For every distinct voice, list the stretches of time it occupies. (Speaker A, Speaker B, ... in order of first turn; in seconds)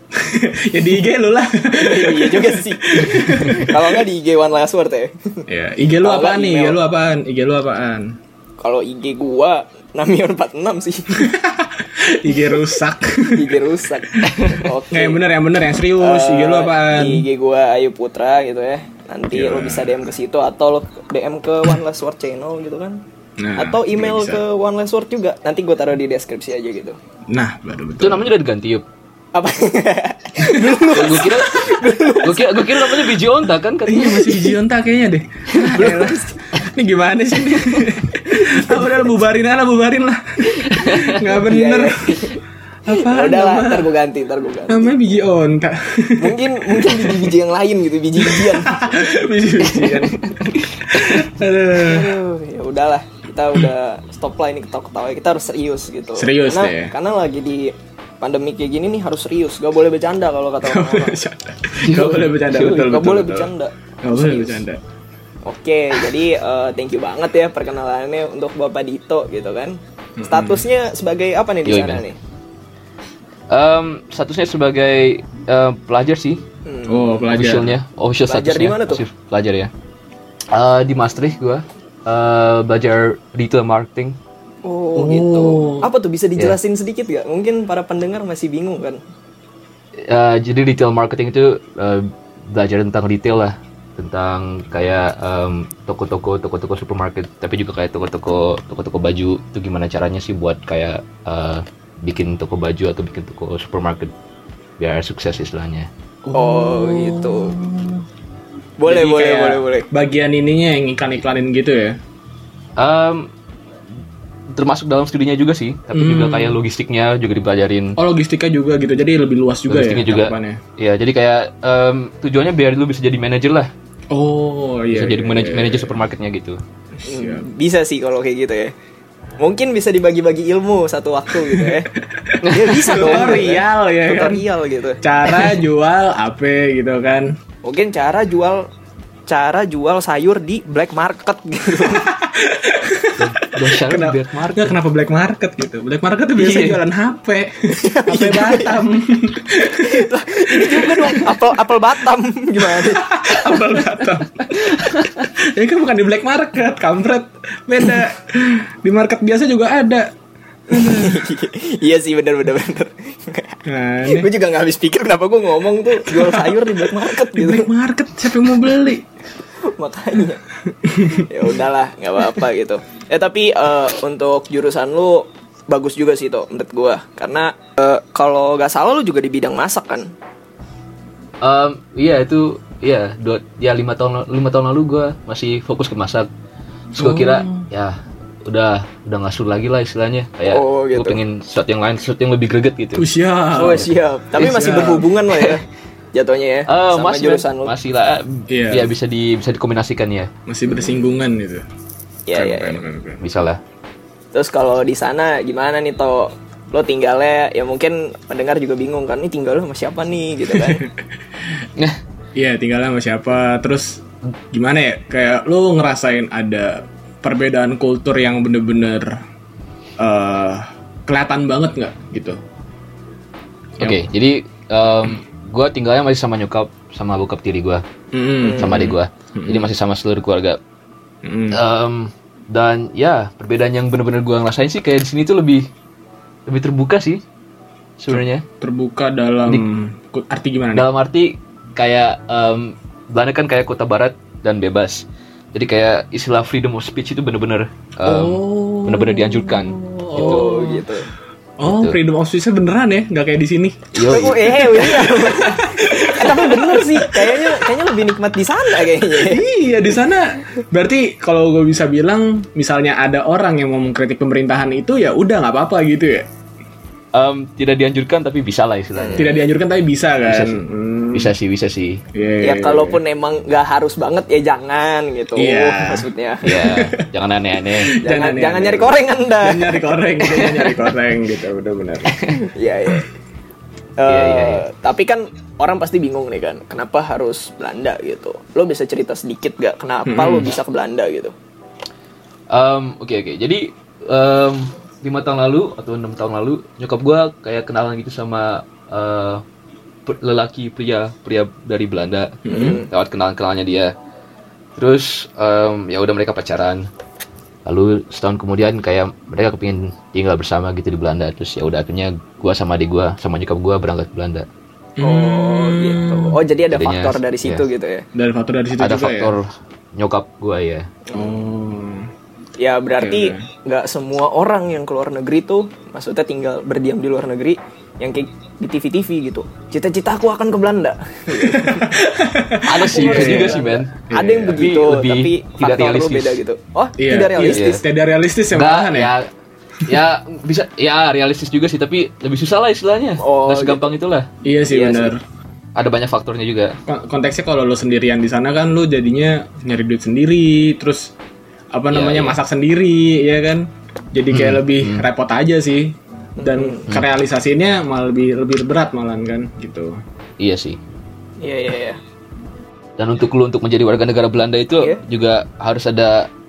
Speaker A: 0.1-4.0, 5.5-8.2, 11.1-13.6, 14.2-17.2, 19.3-19.9, 23.4-24.4, 27.3-28.3, 30.4-30.9, 33.8-42.3, 42.8-43.9, 44.7-47.3, 48.2-52.2, 56.2-56.9, 60.6-63.5, 64.0-64.8, 70.2-70.6, 76.9-77.8, 84.9-85.9, 106.2-108.0, 108.9-112.0, 115.9-116.6, 118.0-120.6, 124.1-126.1, 127.0-127.4, 131.4-134.4, 135.0-137.3, 141.8-151.3, 152.6-160.1, 160.7-161.3, 163.7-164.3, 166.1-169.1, 170.8-171.3, 187.0-187.7, 193.0-195.1, 198.5-198.9, 200.5-201.7, 202.3-203.2, 210.6-210.8, 212.3-219.2, 220.0-222.4, 223.8-224.1, 228.1-229.7, 231.2-231.6, 238.1-240.9, 248.0-250.8, 251.6-254.1, 254.7-257.7, 259.1-266.3, 269.1-271.3, 272.1-273.0, 275.4-277.0, 277.8-282.2, 290.1-290.5, 302.4-302.8, 315.0-316.4, 318.1-319.4, 321.1-322.1, 323.0-323.4, 331.3-334.7, 337.0-339.1, 344.4-345.2, 346.9-351.1, 351.7-360.0
Speaker B: 1.7-5.4, 6.0-6.8, 8.6-11.3, 12.5-12.7, 13.3-15.2, 16.0-23.0, 23.6-27.0, 29.3-33.2, 34.1-34.5, 35.5-36.6, 37.5-39.1, 41.2-42.4, 42.9-44.9, 46.2-48.9, 49.6-51.2, 51.8-61.2, 62.8-64.6, 65.4-72.2, 76.7-77.2, 78.3-79.0, 84.6-89.0, 106.3-107.5, 108.8-109.9, 127.0-128.7, 129.4-131.9, 132.4-135.5, 137.6-138.7, 139.3-142.1, 147.7-148.8, 149.8-153.6, 160.7-167.7, 169.7-170.4, 171.1-180.1, 190.5-191.2, 193.5-197.7, 202.3-202.8, 204.3-210.8, 228.4-228.8, 250.1-251.1, 254.0-259.4, 268.9-269.4, 272.4-276.6, 278.0-280.8, 282.4-283.1, 284.0-291.3, 302.5-302.9, 315.0-318.1, 321.1-321.4, 322.6-331.9, 332.7-337.8, 343.2-343.9, 356.4-356.9, 361.4-362.0
Speaker C: 28.0-28.8, 30.9-34.2, 40.8-41.1, 61.8-62.9, 71.6-72.0, 73.5-76.4, 77.3-79.7, 80.5-84.2, 90.0-104.1, 104.8-105.9, 112.8-113.3, 114.5-118.0, 119.7-123.7, 124.9-126.6, 143.2-144.7, 146.3-146.8, 181.4-186.3, 186.9-193.1, 196.7-200.3, 203.2-203.6, 223.8-227.8, 228.5-230.6, 231.5-235.7, 236.5-237.2, 238.0-238.4, 240.7-250.6, 251.6-252.0, 253.9-254.7, 267.1-269.3, 270.2-272.0, 276.4-277.9, 284.1-284.6, 292.5-299.4, 300.1-303.9, 304.8-306.9, 307.6-314.5, 316.7-317.6, 318.8-320.9, 332.6-333.9, 334.5-336.4, 337.4-337.8, 338.5-339.3, 339.8-345.1, 345.8-346.8, 351.9-352.4, 354.3-355.0, 360.4-360.8, 363.0-366.3